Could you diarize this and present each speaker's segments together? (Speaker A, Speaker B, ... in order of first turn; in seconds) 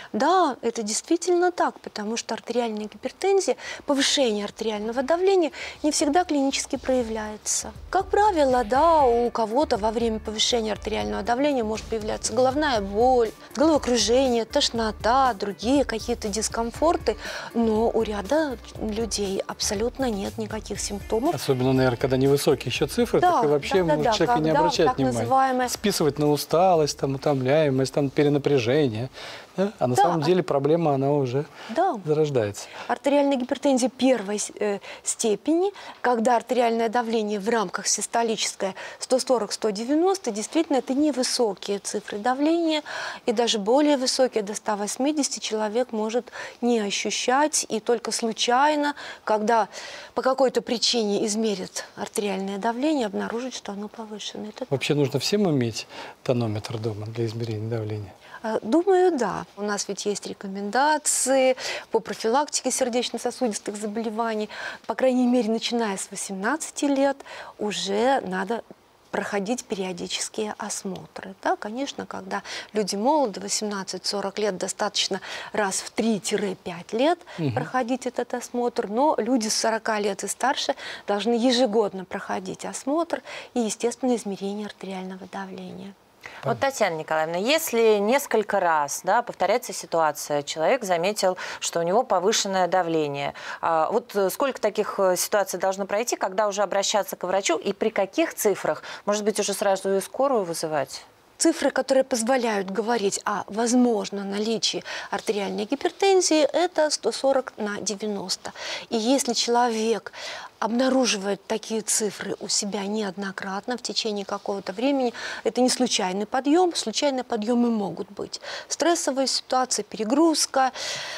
Speaker A: 0.1-21.4, 23.2-25.7, 29.9-30.3, 31.7-32.0, 32.8-54.7, 58.4-85.9, 101.4-120.7
Speaker B: 21.3-31.5, 32.0-32.7, 54.7-58.1, 77.4-77.7
Speaker C: 86.4-101.0